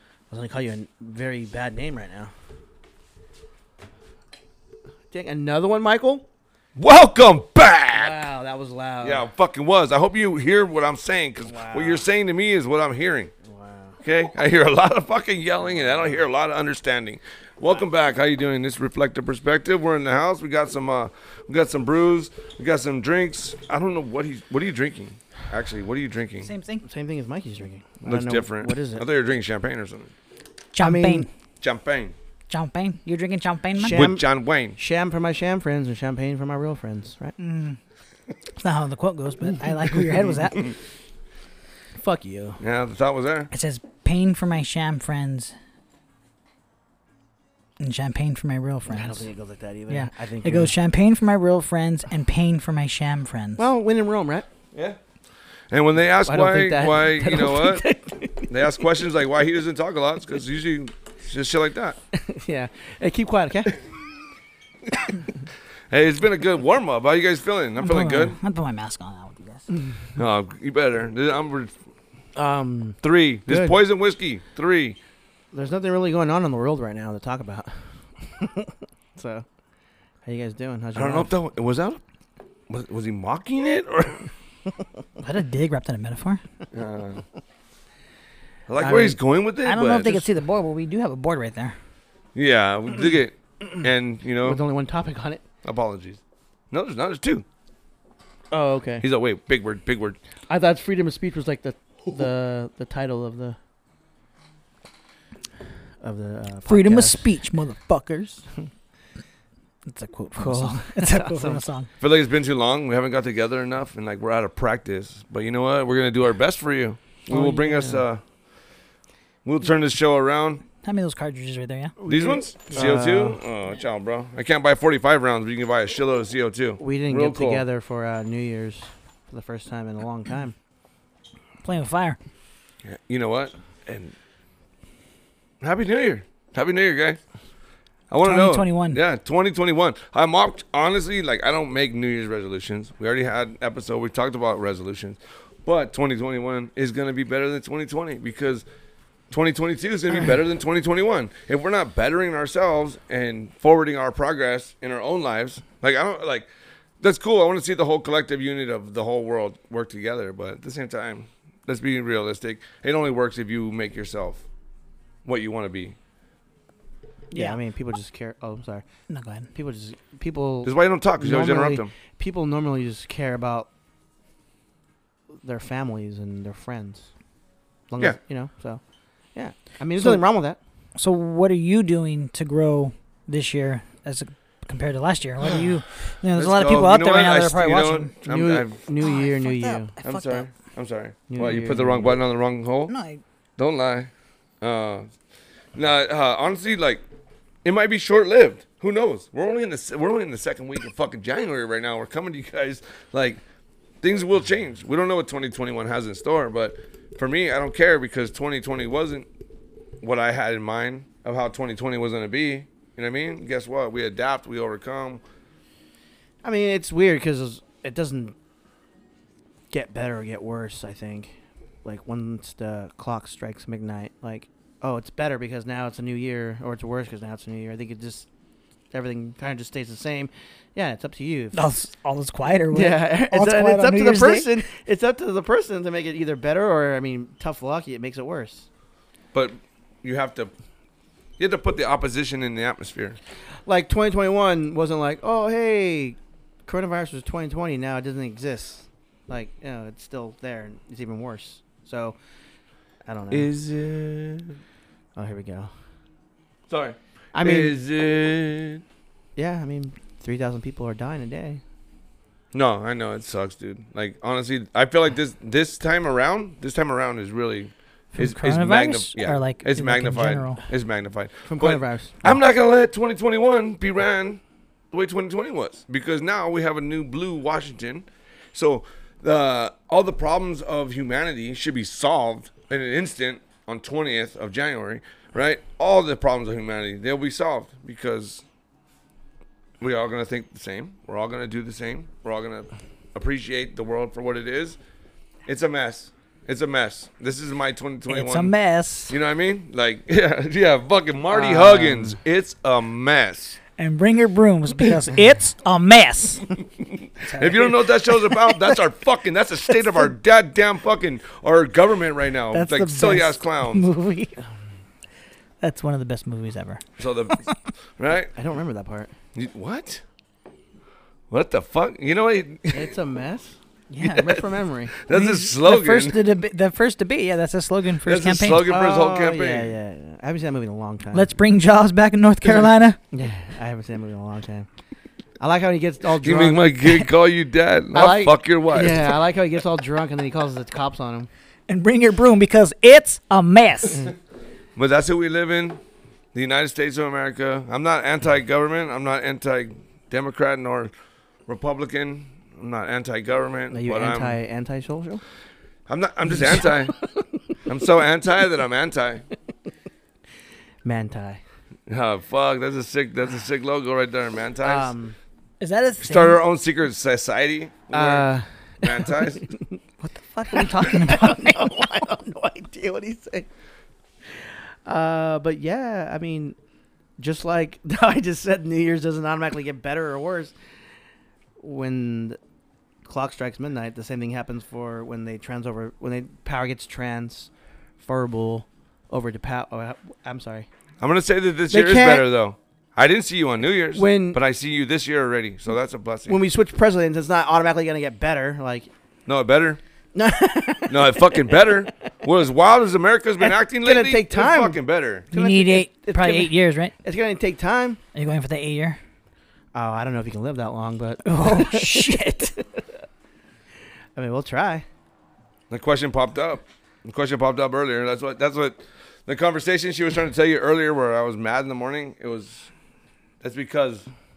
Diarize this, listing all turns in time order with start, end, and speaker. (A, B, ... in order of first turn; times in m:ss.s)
0:00.3-0:02.3 A
0:05.1-0:06.2 A
0:06.8-0:08.2 B
0:07.9-0:09.2 A
0:09.0-0:13.3 B
0:11.4-0:12.0 A
0:13.4-0:14.0 A
0:14.0-0:26.5 B
0:26.4-0:26.8 C
0:26.8-0:29.0 A
0:28.0-0:30.1 B
0:30.8-0:31.3 C
0:30.8-0:31.3 A
0:31.6-0:32.2 B
0:32.5-0:34.1 C
0:33.8-0:37.4 A
0:33.9-0:34.8 B
0:37.4-0:37.8 C
0:38.6-0:40.7 C
0:39.9-0:40.5 A
0:42.0-0:42.6 A
0:42.6-0:43.5 B
0:43.5-0:45.5 C
0:47.8-0:49.3 C
0:48.9-0:50.7 A
0:49.9-0:53.7 C
0:53.6-0:54.5 A
0:54.7-0:55.0 B
0:55.7-0:57.8 B
0:56.2-0:58.8 A
0:58.5-1:02.0 B
1:02.1-1:03.8 A
1:05.9-1:08.4 B
1:07.8-1:09.7 C
1:10.2-1:11.7 B
1:12.4-1:13.8 A
1:13.0-1:15.0 B
1:15.5-1:19.4 A
1:20.2-1:21.3 A
1:20.9-1:22.0 B
1:22.7-1:24.3 B
1:25.2-1:26.4 C
1:26.7-1:27.2 B
1:28.7-1:30.3 B
1:28.8-1:29.2 A
1:29.6-1:31.8 C
1:32.3-1:34.6 B
1:34.4-1:35.4 A
1:35.6-1:37.4 B
1:38.5-1:39.0 A
1:39.0-1:40.2 B
1:40.5-1:43.6 A
1:46.0-1:47.3 A
1:46.7-1:48.4 C
1:49.9-1:51.9 C
1:50.4-1:51.6 A
1:52.0-1:58.2 B
1:57.3-1:58.0 A
1:59.4-2:00.6 B
2:00.8-2:02.0 C
2:02.0-2:03.4 A
2:02.0-2:07.6 B
2:06.8-2:10.5 A
2:11.6-2:12.2 C
2:12.8-2:14.1 B
2:15.6-2:17.2 B
2:18.1-2:28.6 B
2:18.2-2:19.0 C
2:29.3-2:36.5 B
2:37.0-2:44.4 B
2:45.2-2:46.0 B
2:47.3-2:47.6 C
2:47.3-2:48.8 A
2:49.1-2:49.5 C
2:49.5-2:53.7 A
2:50.6-2:51.9 B
2:55.4-2:57.1 A
2:57.9-2:58.8 A
2:59.3-3:00.6 A
3:01.0-3:08.1 C
3:06.4-3:08.7 B
3:08.2-3:09.9 A
3:09.0-3:10.5 C
3:10.0-3:12.9 B
3:11.3-3:12.2 A
3:12.9-3:13.2 C
3:13.6-3:15.1 B
3:15.8-3:17.0 B
3:17.6-3:23.4 B
3:24.0-3:29.2 B
3:30.0-3:35.2 B
3:36.4-3:38.3 A
3:39.7-3:41.3 A
3:41.8-3:48.3 A
3:48.9-3:51.7 A
3:51.5-3:54.5 C
3:52.7-3:58.7 A
3:59.3-4:00.5 B
4:01.4-4:03.2 B
4:03.7-4:12.2 A
4:13.1-4:13.5 A
4:13.3-4:14.6 B
4:15.1-4:15.7 A
4:16.7-4:18.8 B
4:17.3-4:17.8 A
4:19.4-4:21.6 A
4:22.5-4:34.4 B
4:28.1-4:30.6 C
4:31.4-4:32.4 A
4:34.9-4:48.4 B
4:49.8-4:54.8 B
4:55.4-4:58.5 B
4:58.1-4:59.1 C
4:59.1-5:03.6 B
5:01.3-5:02.2 A
5:03.8-5:06.5 C
5:06.8-5:13.9 B
5:07.2-5:07.8 C
5:12.5-5:14.4 C
5:15.6-5:16.8 C
5:17.0-5:17.5 B
5:18.0-5:18.3 B
5:18.3-5:19.1 A
5:19.3-5:20.0 B
5:21.3-5:22.9 B
5:22.7-5:25.0 A
5:23.9-5:24.4 C
5:24.1-5:24.4 B
5:25.0-5:26.2 B
5:25.1-5:28.7 C
5:28.0-5:29.7 B
5:28.6-5:31.3 A
5:31.1-5:33.0 C
5:33.1-5:34.7 A
5:35.4-5:37.1 A
5:36.2-5:39.1 B
5:37.9-5:41.3 A
5:41.7-5:44.1 C
5:44.8-5:45.8 B
5:46.3-5:50.9 B
5:51.4-5:54.4 B
5:53.7-5:55.2 A
5:55.9-5:57.0 B
5:57.6-5:59.2 B
6:00.8-6:01.4 A
6:01.9-6:04.9 B
6:04.6-6:05.1 A
6:05.6-6:06.4 C
6:06.0-6:08.3 B
6:07.9-6:09.8 A
6:08.8-6:09.5 B
6:10.0-6:11.7 C
6:10.5-6:13.5 A
6:14.9-6:16.6 A
6:17.2-6:20.5 A
6:21.6-6:22.4 A
6:23.0-6:30.7 A
6:31.0-6:36.4 B
6:31.7-6:32.2 A
6:33.9-6:34.4 A
6:36.3-6:38.9 A
6:39.3-6:39.8 B
6:40.1-6:42.0 A
6:40.9-6:45.2 B
6:43.4-6:48.0 A
6:45.3-6:46.9 C
6:48.1-6:49.0 C
6:49.8-6:52.7 A
6:51.2-6:52.6 C
6:54.2-6:54.8 A
6:55.7-7:02.7 B
7:03.4-7:04.1 B